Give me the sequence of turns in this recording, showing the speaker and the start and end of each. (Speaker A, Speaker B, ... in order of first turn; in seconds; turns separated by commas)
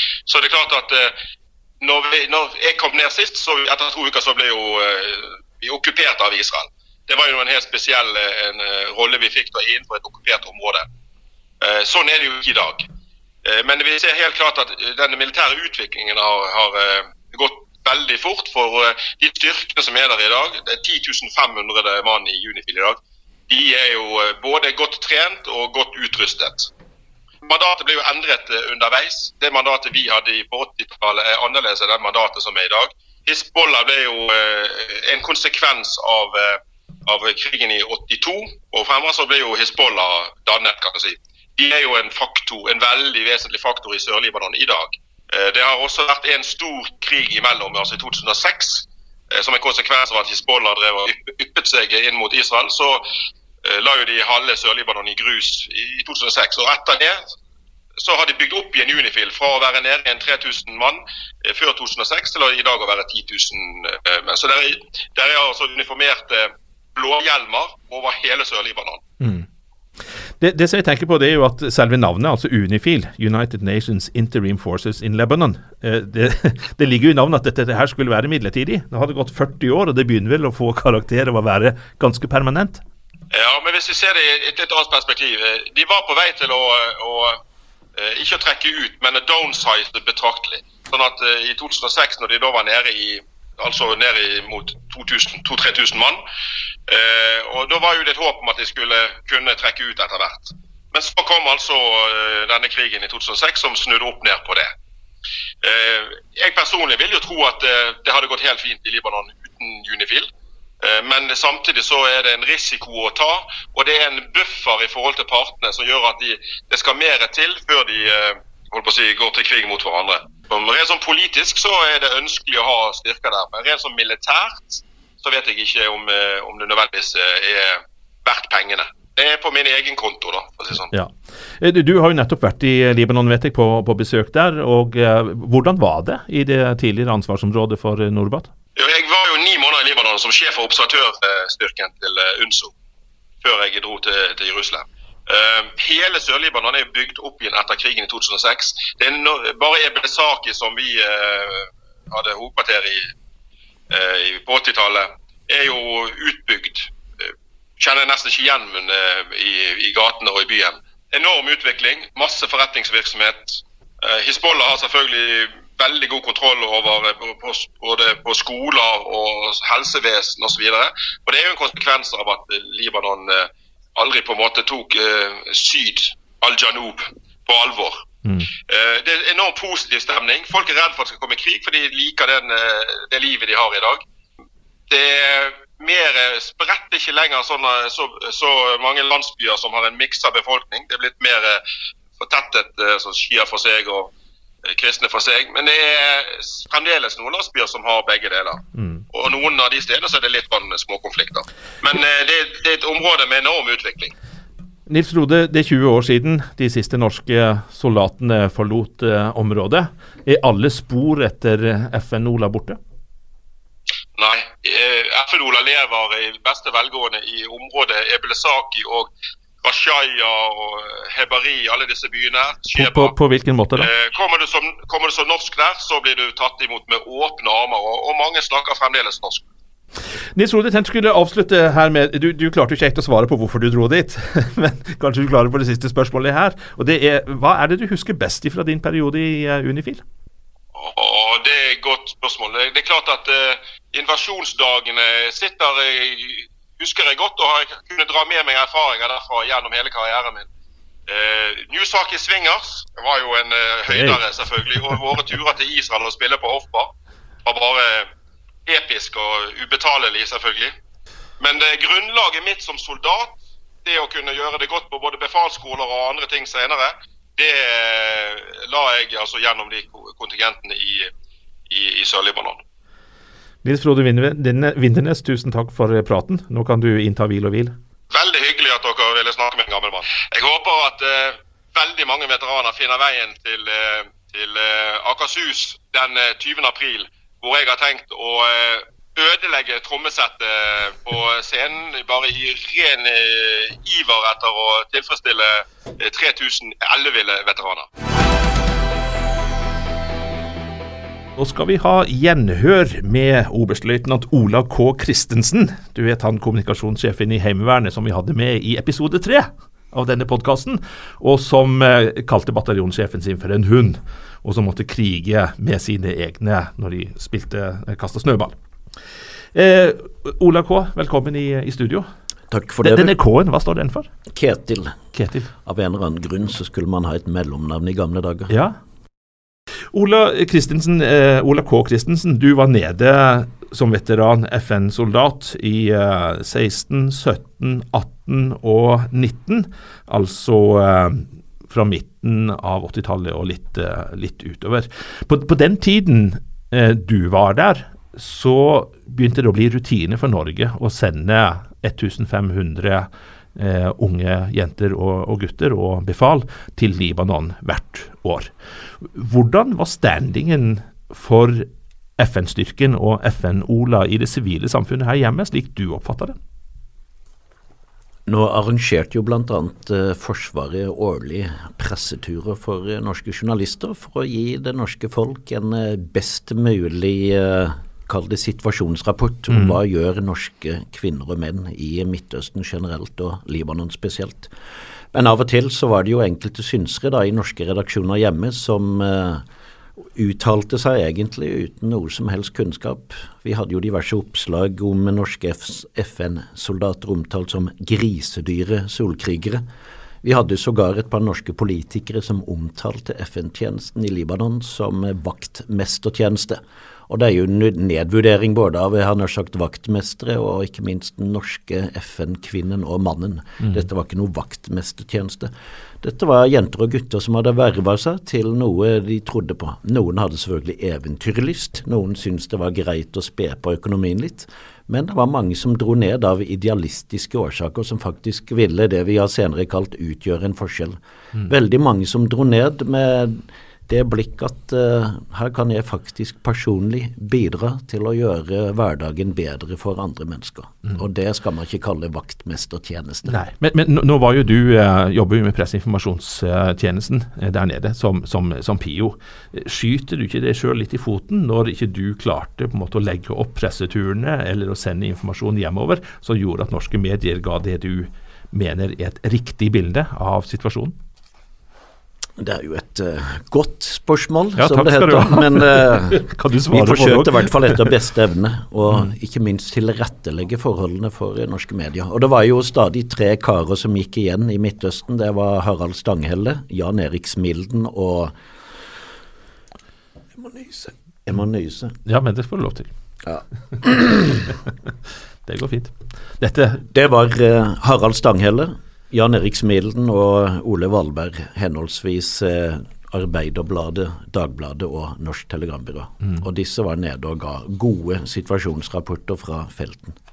Speaker A: 0.3-1.1, Speaker A: 1.8-10.8, Speaker A: 11.6-12.8, Speaker A: 13.4-23.0, Speaker A: 23.5-26.7, Speaker A: 27.4-53.0, Speaker A: 53.6-57.2, Speaker A: 58.0-69.0, Speaker B: 69.2-69.5, Speaker B: 70.3-82.8, Speaker A: 83.3-87.4, Speaker A: 88.0-96.2, Speaker A: 96.9-104.7, Speaker A: 105.6-110.3, Speaker A: 110.8-130.9, Speaker B: 130.9-138.5, Speaker A: 138.8-142.7, Speaker A: 143.4-153.1, Speaker A: 153.9-178.1, Speaker A: 178.7-184.0, Speaker A: 184.9-191.6, Speaker A: 192.2-194.1, Speaker A: 194.6-204.1, Speaker B: 198.8-199.0, Speaker B: 204.9-212.8, Speaker A: 214.1-219.1, Speaker A: 219.6-223.1, Speaker B: 222.7-223.9, Speaker A: 223.8-229.4, Speaker B: 230.1-240.0, Speaker A: 240.7-250.4, Speaker A: 251.1-256.9, Speaker B: 253.9-254.2, Speaker A: 257.4-258.1, Speaker A: 258.6-260.7, Speaker A: 261.4-271.1, Speaker A: 271.7-272.6, Speaker B: 273.6-277.8, Speaker A: 278.1-297.9, Speaker B: 301.4-318.5, Speaker B: 319.5-322.1, Speaker C: 322.5-323.1, Speaker B: 322.8-324.1, Speaker C: 324.3-325.0, Speaker B: 325.1-325.5, Speaker C: 325.6-328.5, Speaker B: 328.5-328.8, Speaker B: 329.9-366.4, Speaker C: 368.2-384.5, Speaker B: 379.5-379.8, Speaker C: 385.1-389.4, Speaker C: 390.0-399.6, Speaker C: 400.2-443.4, Speaker B: 443.2-460.9, Speaker C: 462.4-478.3, Speaker B: 464.6-467.9, Speaker C: 480.4-481.9, Speaker B: 482.0-482.9, Speaker C: 483.2-484.5, Speaker B: 485.4-486.8, Speaker C: 486.9-500.2